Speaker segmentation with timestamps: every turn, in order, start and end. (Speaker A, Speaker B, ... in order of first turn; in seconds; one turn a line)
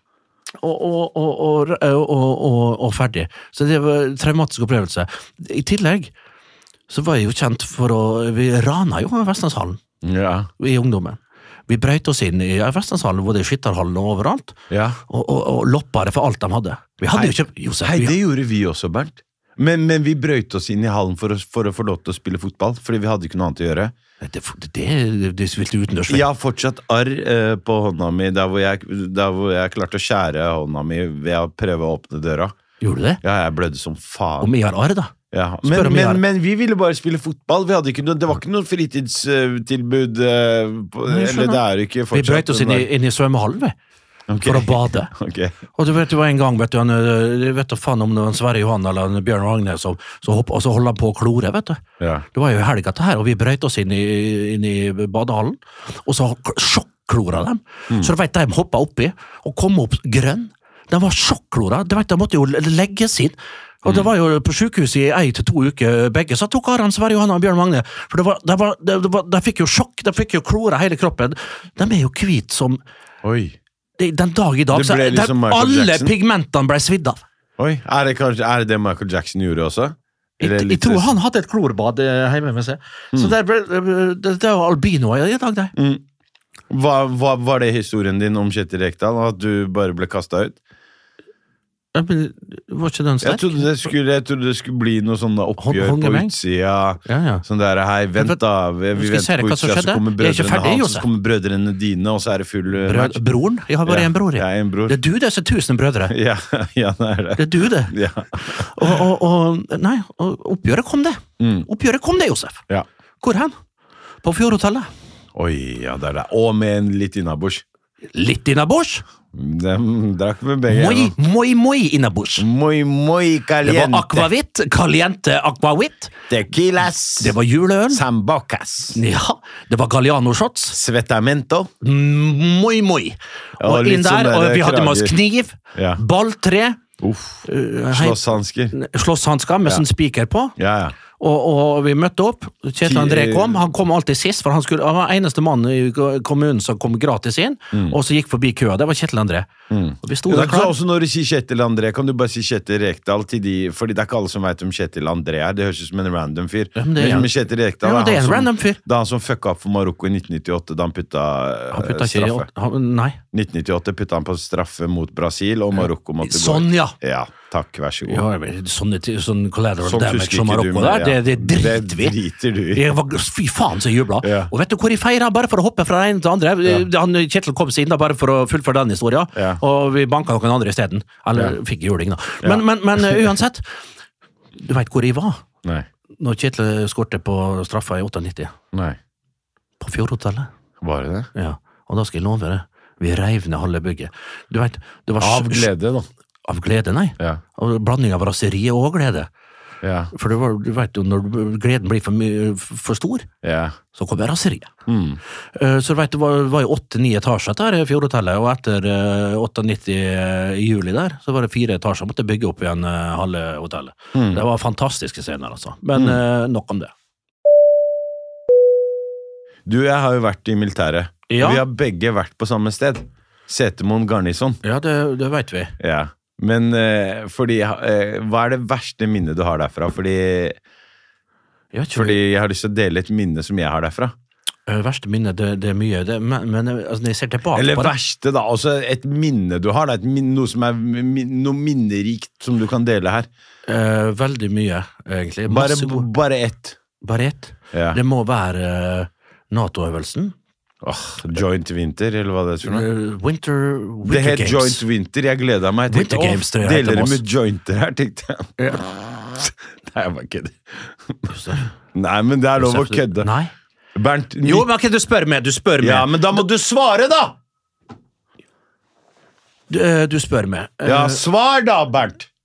Speaker A: 0.6-6.1
Speaker A: 6.9-9.8
Speaker B: 10.0-10.5
Speaker A: 10.6-14.6
Speaker B: 14.7-15.0
Speaker A: 15.1-18.2
Speaker B: 17.1-23.9
Speaker A: 24.2-26.2
Speaker B: 26.1-32.5
Speaker A: 32.8-33.2
Speaker B: 33.2-34.5
Speaker A: 34.4-35.1
Speaker B: 35.3-42.9
Speaker A: 35.6-36.2
Speaker A: 41.1-43.7
Speaker B: 44.3-45.5
Speaker A: 44.4-45.1
Speaker A: 45.8-51.8
Speaker B: 52.0-52.2
Speaker A: 52.3-72.8
Speaker B: 73.2-73.6
Speaker A: 74.0-77.2
Speaker B: 74.7-76.1
Speaker B: 77.6-81.1
Speaker A: 80.4-85.7
Speaker B: 85.7-86.0
Speaker B: 86.7-90.6
Speaker A: 91.9-93.7
Speaker B: 93.2-103.2
Speaker A: 95.6-96.3
Speaker A: 97.0-97.4
Speaker A: 98.9-101.0
Speaker A: 102.8-106.1
Speaker B: 103.8-105.0
Speaker B: 106.1-109.0
Speaker A: 107.4-112.6
Speaker B: 111.4-111.7
Speaker A: 113.2-113.5
Speaker A: 114.2-114.9
Speaker B: 115.3-117.6
Speaker A: 118.1-119.0
Speaker B: 119.3-121.1
Speaker A: 120.7-122.5
Speaker B: 122.4-124.3
Speaker A: 123.6-126.2
Speaker B: 126.3-127.3
Speaker A: 127.2-128.0
Speaker B: 127.9-129.0
Speaker A: 128.9-130.8
Speaker B: 130.7-131.7
Speaker A: 131.8-136.8
Speaker B: 133.6-135.2
Speaker B: 135.7-136.0
Speaker B: 137.0-138.8
Speaker A: 137.4-140.5
Speaker B: 140.6-140.9
Speaker A: 141.2-149.5
Speaker B: 142.8-143.6
Speaker B: 149.7-162.5
Speaker A: 150.0-150.7
Speaker A: 156.8-158.8
Speaker A: 161.7-163.2
Speaker B: 163.3-168.2
Speaker A: 165.8-166.9
Speaker A: 168.1-172.2
Speaker B: 169.8-172.9
Speaker A: 172.7-183.8
Speaker B: 174.2-174.5
Speaker B: 179.3-179.6
Speaker B: 182.4-183.3
Speaker A: 184.6-185.4
Speaker A: 186.2-188.5
Speaker B: 188.7-189.0
Speaker A: 189.8-190.5
Speaker B: 190.8-191.3
Speaker A: 191.3-195.7
Speaker B: 195.2-196.1
Speaker A: 196.4-199.3
Speaker B: 199.8-200.1
Speaker A: 200.1-203.3
Speaker B: 203.4-203.8
Speaker A: 203.9-204.7
Speaker B: 204.9-205.2
Speaker A: 205.6-216.9
Speaker B: 214.1-214.4
Speaker B: 215.9-216.2
Speaker B: 219.7-224.6
Speaker A: 221.3-221.6
Speaker A: 224.6-225.7
Speaker B: 225.8-230.6
Speaker A: 231.7-232.2
Speaker B: 231.9-234.1
Speaker A: 234.7-237.9
Speaker B: 237.5-243.3
Speaker A: 243.7-246.1
Speaker B: 245.5-246.8
Speaker A: 247.0-250.3
Speaker B: 247.7-248.0
Speaker B: 250.8-252.8
Speaker A: 252.6-254.8
Speaker B: 254.0-261.3
Speaker A: 255.9-257.2
Speaker A: 261.3-261.7
Speaker B: 261.9-263.3
Speaker A: 262.6-263.5
Speaker B: 263.9-264.7
Speaker A: 264.4-266.4
Speaker B: 265.8-267.4
Speaker A: 269.7-271.2
Speaker B: 270.8-272.3